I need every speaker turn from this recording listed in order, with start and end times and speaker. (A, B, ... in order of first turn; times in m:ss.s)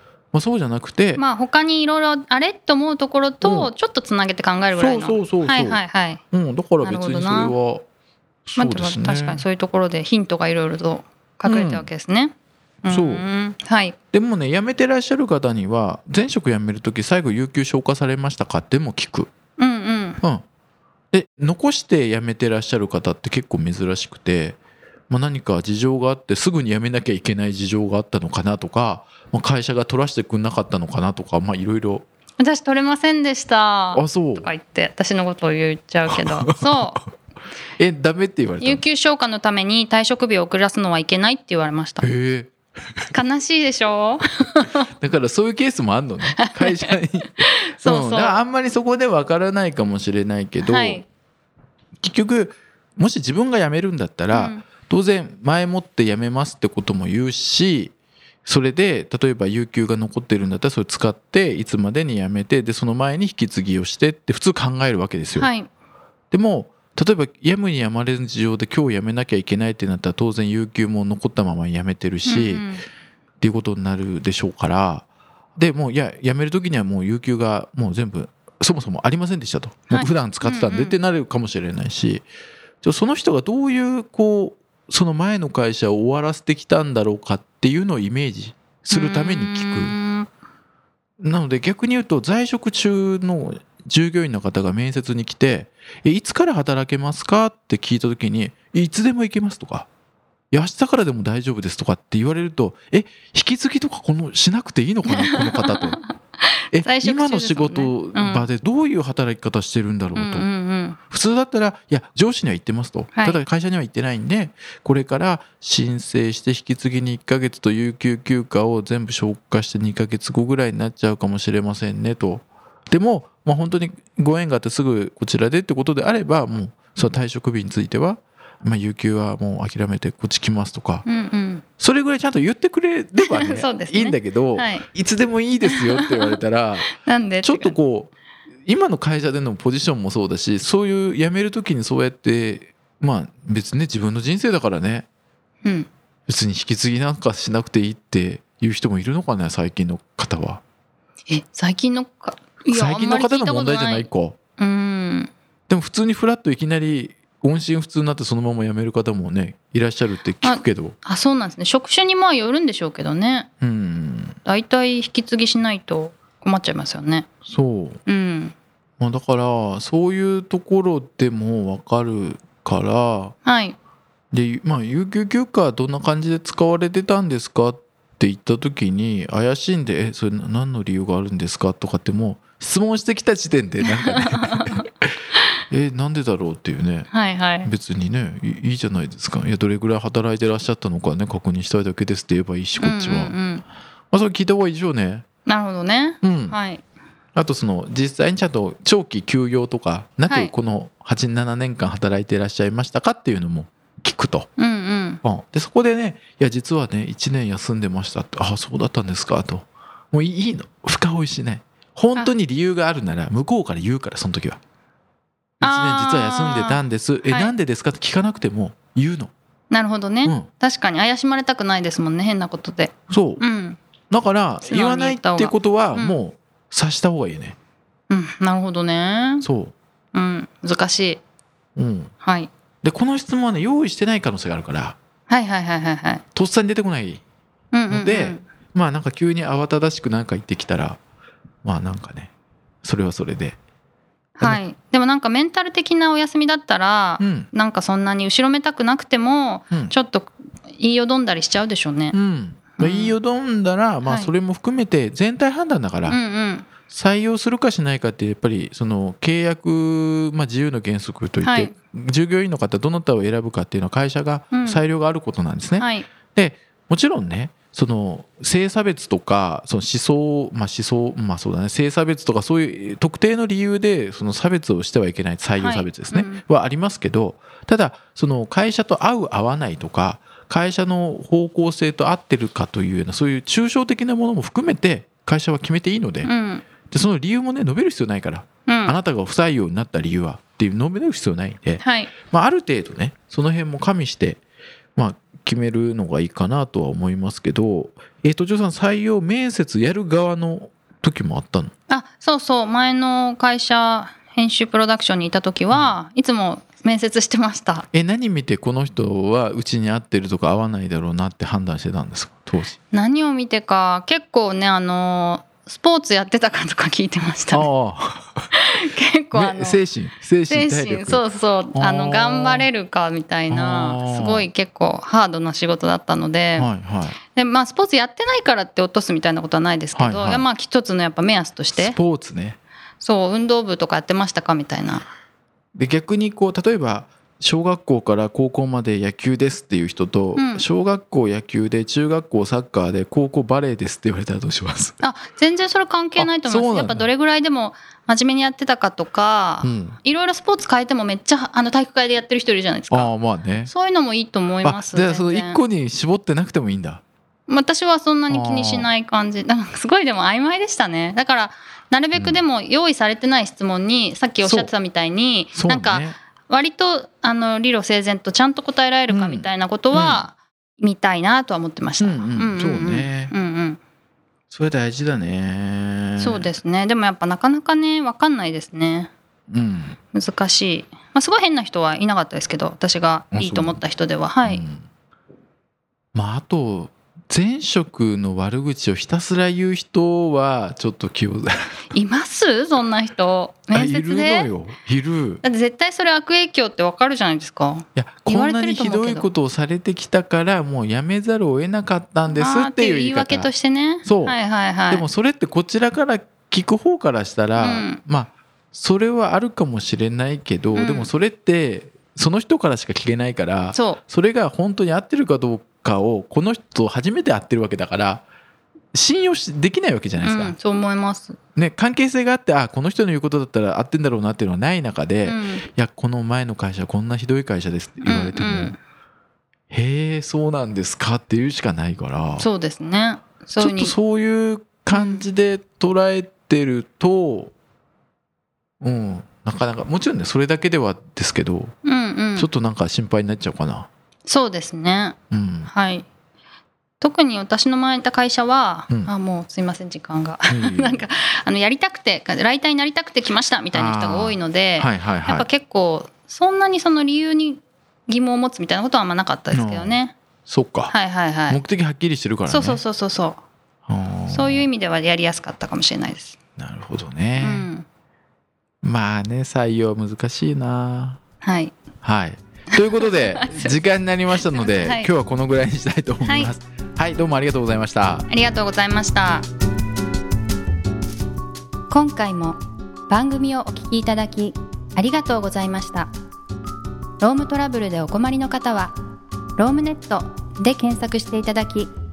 0:00.3-0:01.2 A
0:01.2-0:06.2 B
0:03.4-0:03.7 A
0:04.7-0:05.8 A
0:06.3-0:07.8 A
0:06.8-0:07.5 B
0:08.5-0:09.4 A
0:08.6-0:14.0 B
0:11.4-0:11.9 A
0:12.9-0:13.2 A
0:14.1-0:19.3 A
0:19.6-0:20.2 B
0:21.1-0:24.6 A
0:25.1-0:32.0 A
0:32.4-0:37.0 B
0:33.9-0:34.5 A
0:36.1-0:37.0 A
0:37.8-0:38.8 A
0:38.6-0:42.1 B
0:42.0-0:42.5 A
0:43.1-0:44.8 B
0:45.0-0:51.0 A
0:46.4-0:46.9 B
0:47.4-0:48.4 B
0:50.6-0:51.0 B
0:52.0-0:57.9 A
0:54.3-0:54.6 B
0:58.4-1:05.5 A
1:05.4-1:05.7 B
1:06.3-1:12.6 A
1:12.2-1:12.8 B
1:13.4-1:15.0 A
1:15.6-1:22.2 A
1:19.9-1:21.0 B
1:22.8-1:30.0 A
1:28.9-1:30.3 B
1:31.2-1:39.9 A
1:40.5-1:46.0 A
1:45.1-1:48.5 B
1:46.7-1:50.5 A
1:50.1-1:51.0 B
1:51.1-2:11.0 A
1:53.1-1:53.4 B
2:11.0-2:11.6 B
2:11.8-2:18.1 A
2:13.2-2:14.9 B
2:15.6-2:16.4 B
2:16.9-2:17.8 B
2:18.6-2:25.1 A
2:26.3-2:30.6 A
2:31.3-2:35.3 B
2:32.7-2:34.4 A
2:35.7-2:41.0 A
2:40.4-2:43.5 B
2:43.6-2:44.4 A
2:44.4-2:47.3 B
2:47.5-2:48.0 A
2:48.0-2:48.5 B
2:49.0-2:53.3 A
2:53.4-2:53.8 B
2:54.3-3:04.8 A
3:04.1-3:04.8 B
3:05.7-3:07.1 A
3:07.1-3:07.7 B
3:07.6-3:13.3 A
3:12.8-3:13.6 B
3:14.1-3:15.2 A
3:15.4-3:16.8 B
3:16.2-3:16.6 A
3:17.3-3:24.5 A
3:20.3-3:20.5 B
3:24.6-3:25.2 B
3:25.2-3:34.6 A
3:35.6-3:39.3 A
3:35.6-3:37.5 B
3:39.7-3:43.8 B
3:43.1-3:43.4 A
3:44.1-3:47.6 A
3:44.6-3:46.2 B
3:48.1-3:49.4 B
3:49.4-3:49.7 A
3:50.1-3:51.2 B
3:51.8-3:52.1 A
3:52.2-3:52.5 B
3:52.8-3:55.0 A
3:55.3-3:56.2 B
3:56.3-3:57.2 A
3:57.7-3:58.4 B
3:57.9-4:01.0 A
4:01.6-4:02.3 A
4:02.8-4:03.6 A
4:04.4-4:12.1 B
4:07.2-4:07.5 A
4:12.1-4:16.2 A
4:12.8-4:13.2 B
4:14.0-4:14.3 B
4:16.1-4:16.7 B
4:16.9-4:46.3 A
4:21.4-4:21.7 B
4:24.5-4:24.8 B
4:25.8-4:26.1 B
4:35.6-4:36.4 B
4:46.2-4:46.6 B
4:46.9-4:54.4 A
4:48.7-4:49.0 B
4:51.8-4:52.1 B
4:55.0-5:01.7 A
5:01.9-5:07.8 B
5:07.9-5:12.8 A
5:12.9-5:17.7 B
5:17.5-5:18.4 A
5:18.5-5:19.8 B
5:19.3-5:21.2 A
5:20.5-5:26.7 B
5:21.7-5:22.7 A
5:23.5-5:24.5 A
5:26.6-5:27.2 A
5:27.3-5:32.0 B
5:29.9-5:30.4 A
5:31.7-5:32.6 A
5:33.0-5:35.0 B
5:35.8-5:45.0 A
5:40.3-5:40.6 B
5:45.0-5:53.1 B
5:46.2-5:47.1 A
5:49.6-5:50.0 A
5:52.9-5:53.7 A
5:53.6-5:55.6 B
5:54.6-5:57.0 A
5:57.5-6:13.8 B
5:58.3-5:58.9 A
6:04.4-6:04.7 A
6:05.5-6:06.2 A
6:09.1-6:10.2 A
6:12.0-6:13.3 A
6:14.5-6:16.4 A
6:16.2-6:19.1 B
6:19.5-6:20.0 A
6:20.1-6:24.6 B
6:23.3-6:23.8 A
6:24.4-6:24.8 A
6:26.1-6:31.7 A
6:31.9-6:34.5 B
6:33.7-6:35.4 A
6:35.4-6:39.3 B
6:37.9-6:43.5 A
6:42.3-6:45.0 B
6:44.0-6:58.2 A
6:47.6-6:48.0 B
6:50.7-6:51.1 B
6:53.7-6:54.0 B
6:58.9-7:00.5 A
7:00.2-7:01.4 B
7:01.6-7:08.7 A
7:05.2-7:05.6 B
7:08.0-7:08.8 B
7:09.7-7:12.5 A
7:12.4-7:13.9 B
7:13.6-7:17.5 A
7:14.9-7:15.2 B
7:18.8-7:21.7 A
7:21.8-7:22.5 B
7:22.4-7:23.9 A
7:24.2-7:25.2 B
7:25.3-7:25.7 A
7:25.7-7:26.0 B
7:27.0-7:40.2 B
7:30.5-7:31.0 A
7:33.7-7:35.5 A
7:39.5-7:40.9 A
7:40.9-7:41.6 B
7:41.5-7:42.8 A
7:42.5-7:43.4 B
7:43.9-7:44.7 A
7:44.3-7:46.4 B
7:46.6-7:47.7 A
7:47.4-7:47.8 B
7:48.8-7:51.2 A
7:51.4-7:51.7 B
7:52.0-7:58.2 A
7:52.8-7:53.7 B
7:54.5-7:55.1 B
7:56.2-7:56.5 B
7:58.3-7:59.5 B
8:01.9-8:06.1 B
8:07.2-8:08.9 B
8:09.6-8:11.9 B